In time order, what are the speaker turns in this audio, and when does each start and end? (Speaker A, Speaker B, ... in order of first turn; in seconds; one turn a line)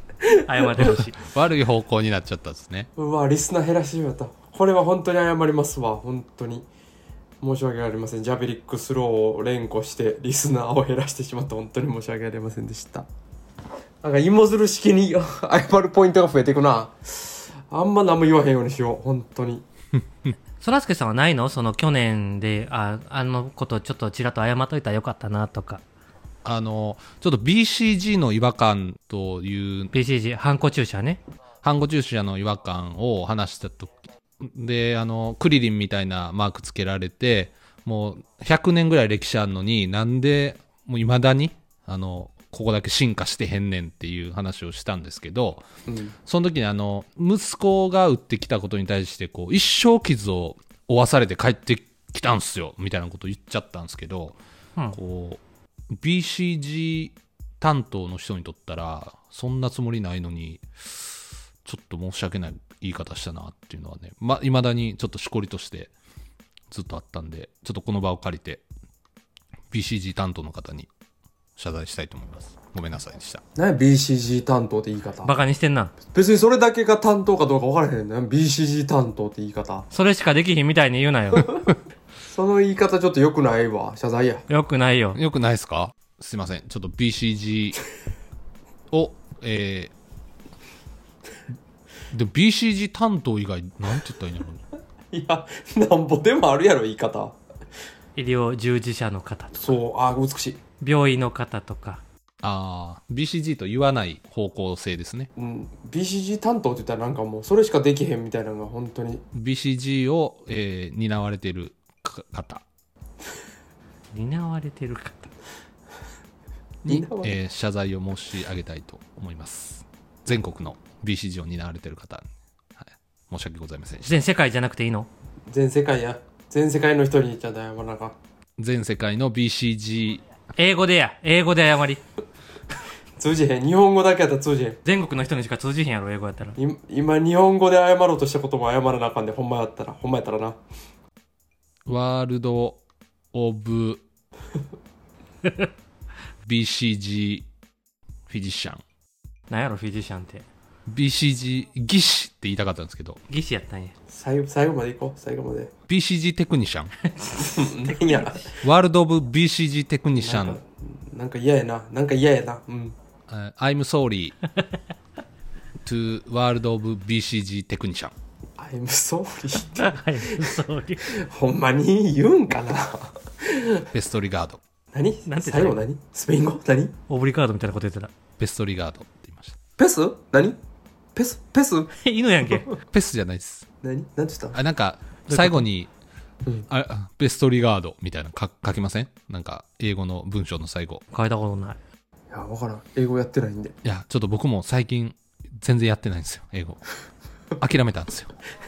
Speaker A: 0.3-0.9
Speaker B: 0.5-1.2
Speaker C: 0.8-2.9
Speaker A: 3.0-6.7
Speaker A: 7.4-13.1
Speaker A: 14.0-19.6
Speaker B: 20.6-25.8
Speaker C: 26.4-29.9
Speaker B: 29.9-31.2
Speaker C: 31.6-45.6
Speaker A: 45.9-46.1
Speaker C: 46.3-54.4
Speaker C: 54.9-55.4
Speaker C: 56.0-65.9
Speaker C: 66.7-68.6
Speaker C: 69.7-70.9
Speaker C: 71.6-73.4
Speaker A: 73.6-75.3
Speaker B: 75.2-75.9
Speaker A: 76.1-79.9
Speaker B: 79.9-81.5
Speaker A: 82.3-84.5
Speaker B: 84.5-85.2
Speaker C: 85.2-87.8
Speaker C: 88.9-89.9
Speaker C: 92.1-94.6
Speaker A: 95.1-97.4
Speaker B: 98.2-99.8
Speaker A: 99.5-100.6
Speaker B: 100.8-102.0
Speaker C: 102.4-105.3
Speaker A: 105.4-109.2
Speaker C: 109.3-112.6
Speaker B: 114.1-115.3
Speaker C: 116.8-122.3
Speaker A: 116.9-117.4
Speaker C: 122.8-124.2
Speaker B: 124.0-125.1
Speaker A: 125.5-128.2
Speaker C: 128.6-130.2
Speaker B: 130.6-132.0
Speaker A: 133.2-134.8
Speaker B: 134.8-136.6
Speaker A: 136.6-140.6
Speaker C: 141.9-142.8
Speaker C: 143.3-144.0
Speaker C: 146.4-147.5
Speaker C: 148.3-148.8
Speaker B: 149.5-150.5
Speaker C: 150.9-153.2
Speaker B: 153.3-153.9
Speaker A: 154.1-155.7
Speaker C: 155.9-156.9
Speaker B: 157.0-158.5
Speaker A: 157.3-158.6
Speaker C: 158.6-160.6
Speaker A: 160.1-163.0
Speaker C: 163.3-164.4
Speaker C: 165.8-168.1
Speaker A: 168.6-170.5
Speaker B: 169.8-171.1
Speaker A: 171.1-173.9
Speaker C: 173.9-174.6
Speaker A: 174.9-177.0
Speaker B: 175.3-175.8
Speaker B: 177.1-178.1
Speaker C: 178.4-179.6
Speaker A: 179.8-180.6
Speaker A: 181.2-181.9
Speaker B: 181.9-182.7
Speaker C: 182.9-183.7
Speaker A: 183.8-184.6
Speaker C: 184.5-185.9
Speaker B: 185.3-185.7
Speaker C: 186.7-191.0
Speaker B: 191.1-191.8
Speaker A: 192.3-193.8
Speaker C: 193.8-196.9
Speaker C: 197.6-198.3